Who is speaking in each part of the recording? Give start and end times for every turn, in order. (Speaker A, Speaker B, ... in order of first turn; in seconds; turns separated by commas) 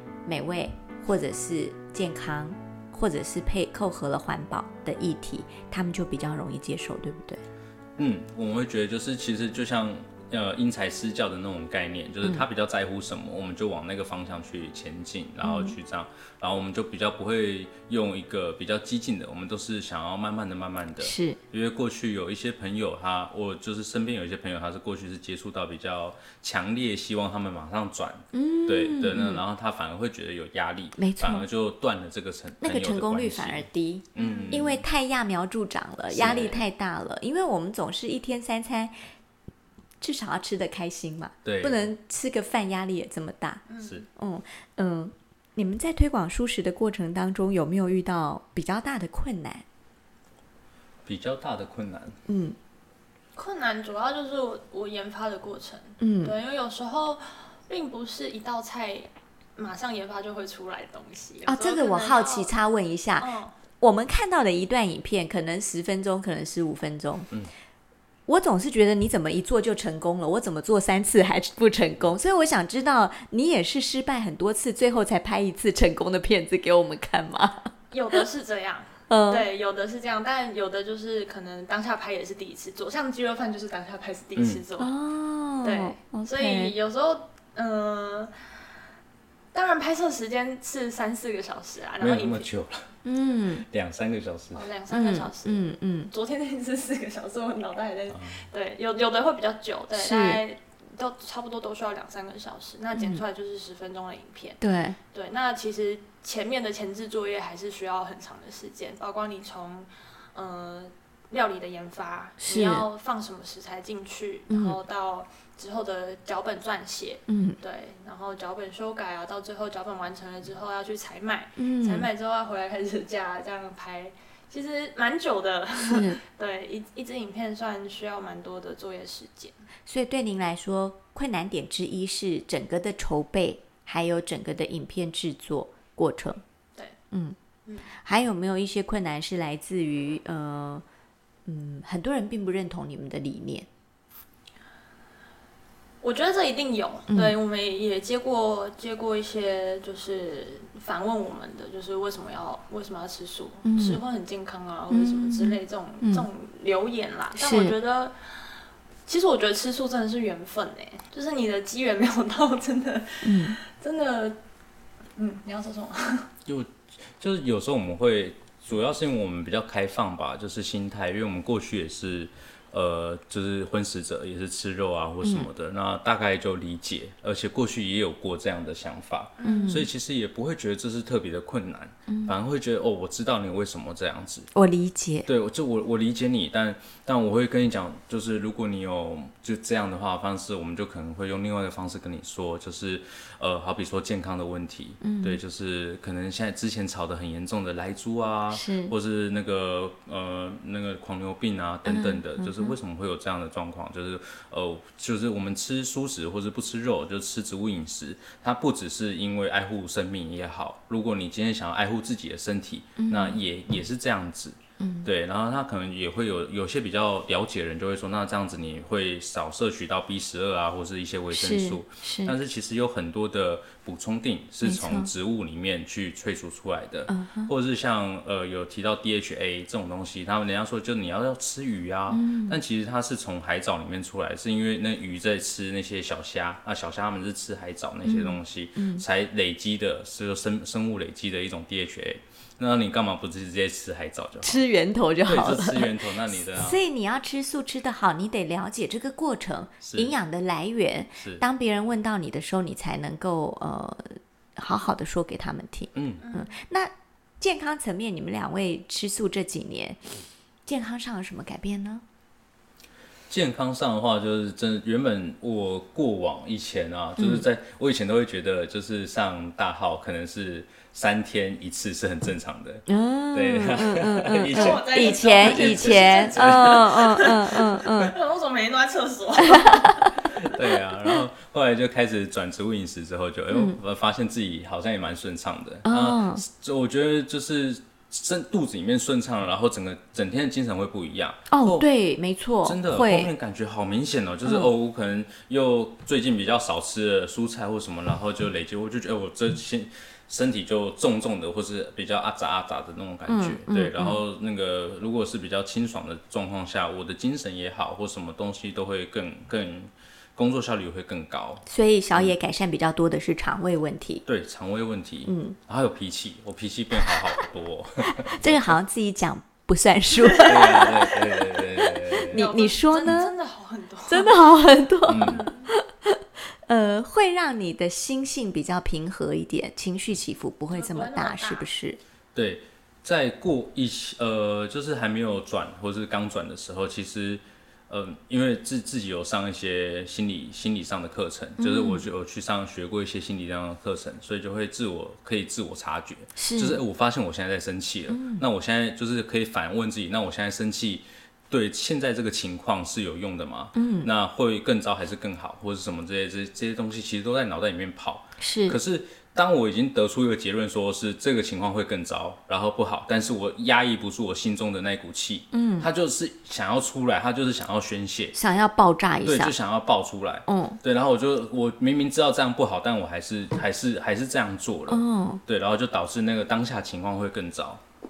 Speaker A: 0.2-7.4, Speaker B: 8.0-34.8, Speaker A: 15.4-15.8, Speaker A: 21.0-21.4, Speaker A: 28.3-29.4, Speaker A: 31.0-31.5, Speaker A: 32.6-38.9, Speaker C: 34.2-34.7, Speaker B: 36.1-36.6, Speaker A: 40.0-49.6, Speaker B: 41.4-41.9, Speaker C: 43.7-44.0, Speaker B: 51.0-52.2, Speaker A: 52.3-52.6, Speaker C: 53.4-62.5, Speaker A: 56.0-56.4, Speaker A: 61.4-67.3, Speaker C: 63.2-63.5, Speaker A: 68.3-78.2, Speaker C: 77.9-84.9, Speaker A: 79.1-79.5, Speaker B: 84.4-84.6, Speaker A: 84.8-86.7, Speaker C: 85.6-88.3, Speaker C: 89.5-92.5, Speaker B: 92.0-92.9, Speaker A: 93.0-93.7, Speaker B: 93.7-94.7, Speaker C: 94.5-129.6, Speaker A: 94.9-96.1, Speaker B: 98.1-98.4, Speaker A: 99.9-100.4, Speaker A: 102.9-103.2, Speaker A: 104.6-105.0, Speaker A: 112.4-112.8, Speaker A: 114.5-114.8, Speaker A: 117.3-117.6, Speaker A: 121.6-122.1, Speaker A: 125.9-126.2, Speaker A: 129.9-136.4, Speaker A: 137.1-137.4, Speaker A: 137.9-140.8, Speaker A: 141.4-143.7, Speaker C: 146.0-158.3, Speaker A: 147.1-147.4, Speaker A: 153.6-154.0, Speaker A: 154.9-156.3, Speaker A: 157.4-157.7, Speaker C: 159.1-164.4, Speaker A: 163.2-163.6, Speaker C: 165.2-166.3, Speaker B: 166.4-184.5, Speaker A: 175.2-175.5, Speaker C: 179.4-179.8, Speaker A: 179.4-179.9, Speaker A: 182.1-182.4, Speaker A: 184.5-185.3, Speaker B: 185.3-244.6, Speaker A: 195.0-195.4, Speaker A: 198.5-198.9, Speaker A: 201.9-202.8, Speaker A: 213.0-213.4, Speaker A: 214.8-215.1, Speaker A: 221.3-222.4, Speaker A: 224.6-225.1, Speaker A: 227.1-227.5, Speaker A: 232.1-232.6, Speaker A: 238.0-239.0, Speaker A: 244.4-260.1, Speaker B: 245.2-246.8, Speaker B: 249.8-250.1, Speaker B: 251.2-251.4, Speaker B: 255.9-256.2, Speaker C: 256.2-256.5, Speaker A: 260.6-262.0, Speaker B: 263.3-277.2, Speaker A: 267.2-267.4, Speaker A: 272.9-278.1, Speaker C: 274.5-280.2, Speaker A: 279.4-280.2, Speaker B: 280.2-291.9, Speaker A: 283.5-283.8, Speaker A: 285.9-286.4, Speaker A: 291.5-293.3, Speaker B: 292.6-312.4, Speaker A: 294.4-294.7, Speaker A: 303.3-304.2, Speaker A: 311.7-314.2, Speaker B: 314.2-318.8, Speaker A: 315.3-315.6, Speaker A: 317.1-317.3, Speaker A: 318.4-323.3, Speaker B: 320.4-322.5, Speaker C: 322.3-324.4, Speaker A: 324.1-332.0, Speaker B: 325.1-325.4, Speaker C: 325.2-325.7, Speaker C: 330.7-331.7, Speaker B: 332.4-368.4, Speaker A: 341.6-342.1, Speaker A: 346.4-346.8, Speaker A: 348.1-348.4, Speaker A: 353.7-354.1, Speaker A: 358.4-358.8, Speaker A: 365.5-365.9, Speaker A: 368.3-369.5, Speaker B: 369.2-377.8, Speaker A: 370.5-370.8, Speaker A: 374.9-375.4